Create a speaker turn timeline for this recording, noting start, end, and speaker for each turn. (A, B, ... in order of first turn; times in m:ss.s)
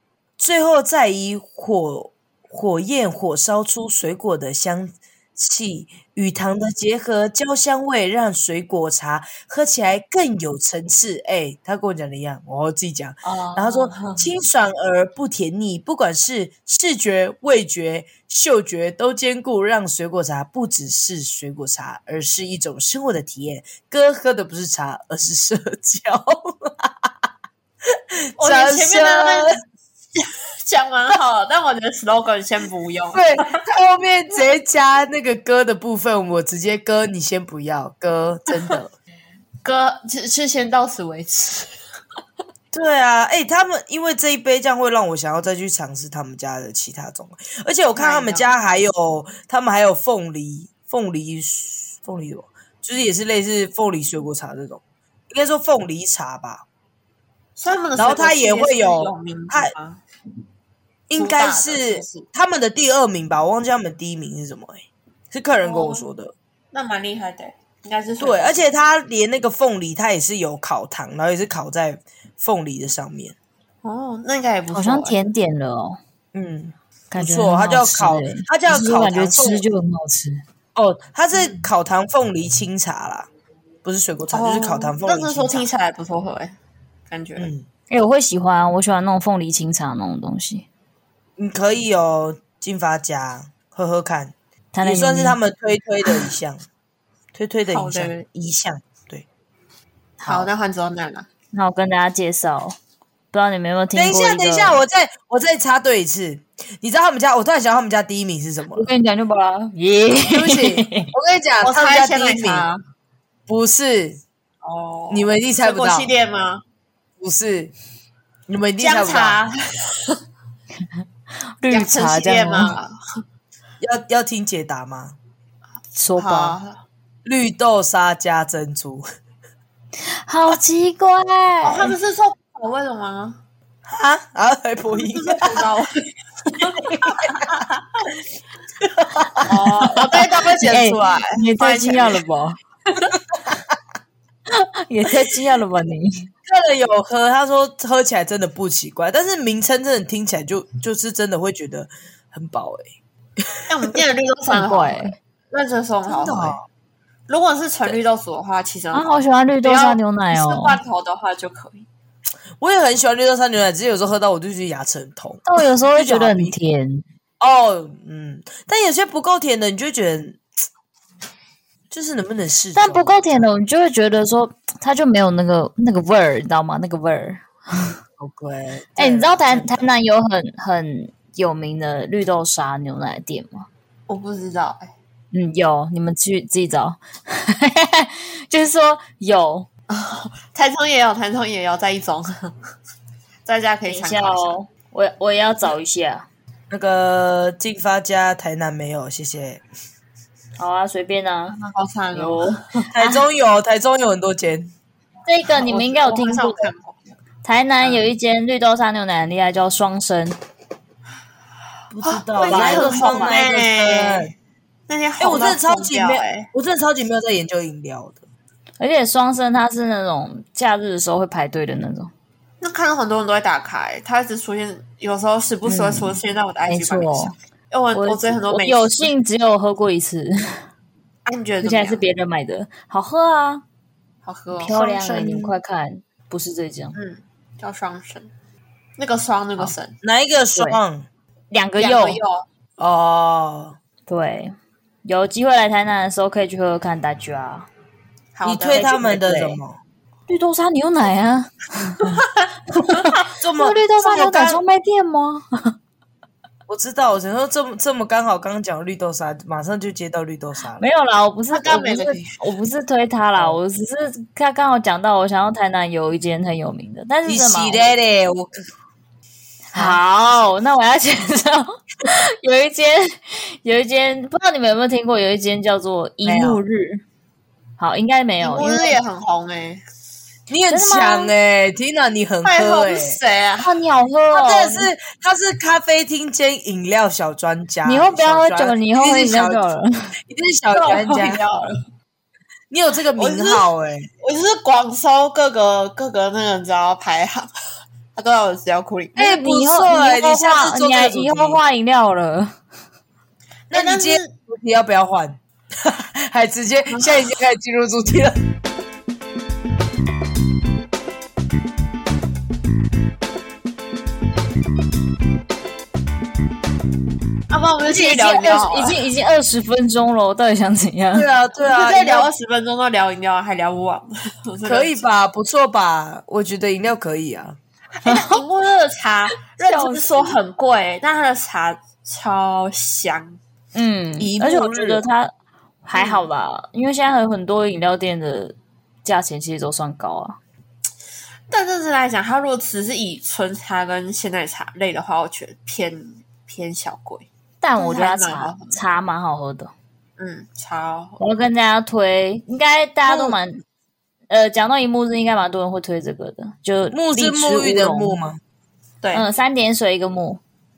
0:00.4-0:27.1 A
0:13.2-0:14.3 B
0:28.2-0:29.6 A
0:28.4-0:29.6 B
0:30.2-0:33.5 B
0:33.1-0:38.9 A
0:39.6-0:41.7 B
0:42.7-0:56.6 A
0:48.0-0:48.5 B
0:57.6-1:00.0 B
0:58.0-0:59.7 A
1:01.1-1:06.3 A
1:01.2-1:02.3 B
1:05.6-1:06.1 B
1:06.7-1:08.6 B
1:08.2-1:13.4 A
1:13.8-1:15.2 B
1:14.7-1:16.0 C
1:16.3-1:19.6 A
1:17.1-1:20.4 C
1:20.8-1:23.3 A
1:23.8-1:25.7 A
1:24.3-1:26.6 B
1:27.1-1:27.5 B
1:27.4-1:27.7 A
1:27.9-1:30.7 C
1:31.4-1:36.6 A
1:34.7-1:35.4 C
1:37.3-1:39.3 A
1:37.7-1:38.3 B
1:40.2-1:41.3 B
1:41.5-1:42.8 C
1:43.3-1:44.8 C
1:44.0-1:48.9 A
1:48.7-1:51.1 C
1:50.3-1:52.7 A
1:51.6-1:52.8 B
1:53.5-1:54.2 A
1:54.6-1:56.6 B
1:55.1-1:56.1 A
1:57.2-1:57.7 A
1:58.5-1:59.4 A
1:58.8-2:00.2 B
2:01.6-2:02.8 C
2:01.7-2:02.9 B
2:03.8-2:05.2 A
2:06.0-2:06.6 C
2:06.2-2:06.8 B
2:07.2-2:09.0 A
2:10.1-2:12.0 C
2:11.6-2:13.4 B
2:13.9-2:15.6 A
2:14.9-2:17.8 B
2:16.8-2:17.6 A
2:18.8-2:20.2 A
2:19.5-2:22.2 B
2:20.6-2:22.6 C
2:24.5-2:26.3 C
2:26.5-2:32.9 A
2:33.7-2:36.6 B
2:34.5-2:35.2 C
2:36.1-2:36.7 A
2:37.3-2:39.1 B
2:38.9-2:40.8 C
2:39.6-2:41.9 B
2:42.6-2:46.6 A
2:45.5-2:47.0 C
2:47.4-2:50.4 A
2:51.9-2:53.5 A
2:52.8-2:58.0 C
2:58.2-2:59.9 A
2:59.0-3:03.7 C
3:04.1-3:04.9 B
3:05.3-3:09.7 C
3:09.9-3:12.6 B
3:13.5-3:14.6 B
3:13.9-3:16.3 C
3:16.7-3:19.6 A
3:20.6-3:21.6 C
3:21.5-3:22.8 B
3:22.1-3:23.2 C
3:22.9-3:24.7 A
3:25.3-3:26.7 C
3:25.4-3:27.0 B
3:27.4-3:30.4 C
3:27.8-3:28.1 B
3:31.9-3:34.3 A
3:32.0-3:34.3 B
3:32.4-3:33.4 C
3:34.9-3:36.5 B
3:35.2-3:38.2 A
3:38.8-3:42.1 C
3:42.6-3:49.1 B
3:45.7-3:46.2 C
3:46.7-3:47.4 C
3:48.0-3:50.6 C
3:51.3-3:52.0 B
3:51.6-3:53.6 C
3:54.2-3:54.8 B
3:54.6-3:57.0 C
3:54.7-3:55.5 A
3:56.9-3:58.3 B
3:59.0-4:00.0 B
4:00.0-4:01.1 A
4:01.5-4:02.2 C
4:01.8-4:02.5 B
4:02.8-4:03.8 A
4:04.1-4:07.7 C
4:08.4-4:09.2 B
4:08.4-4:09.8 A
4:08.7-4:09.6 C
4:10.3-4:15.8 C
4:12.0-4:13.3 B
4:13.4-4:14.6 A
4:16.7-4:20.8 A
4:20.8-4:28.0 C
4:21.5-4:22.4 B
4:23.4-4:23.6 A
4:27.2-4:28.6 A
4:29.7-4:37.0 C
4:29.7-4:30.0 A
4:36.2-4:36.6 A
4:37.8-4:39.0 C
4:38.4-4:39.8 B
4:40.5-4:43.2 A
4:40.7-4:41.3 C
4:42.4-4:43.7 B
4:43.6-4:44.9 C
4:44.3-4:49.6 A
4:47.8-4:50.1 C
4:50.2-4:51.4 A
4:50.7-4:51.8 B
4:52.7-4:54.1 A
4:53.2-4:53.7 B
4:54.2-4:57.5 B
4:58.2-4:59.3 B
4:59.2-5:01.6 A
4:59.2-5:02.6 C
5:03.7-5:04.3 B
5:03.7-5:08.4 A
5:06.9-5:07.2 B
5:17.5-5:19.0 B
5:17.9-5:21.3 C
5:21.1-5:22.3 A
5:21.6-5:25.0 B
5:24.6-5:27.6 A
5:28.0-5:33.4 B
5:28.0-5:28.4 C
5:29.5-5:30.4 C
5:33.8-5:35.3 C
5:34.2-5:35.0 A
5:35.8-5:40.4 C
5:35.9-5:36.3 B
5:41.5-5:48.8 B
5:47.6-5:49.7 C
5:50.2-5:51.2 B
5:51.2-5:53.6 C
5:53.0-5:53.4 A
5:54.3-5:58.2 C
5:56.9-5:58.4 A
5:59.1-6:00.4 C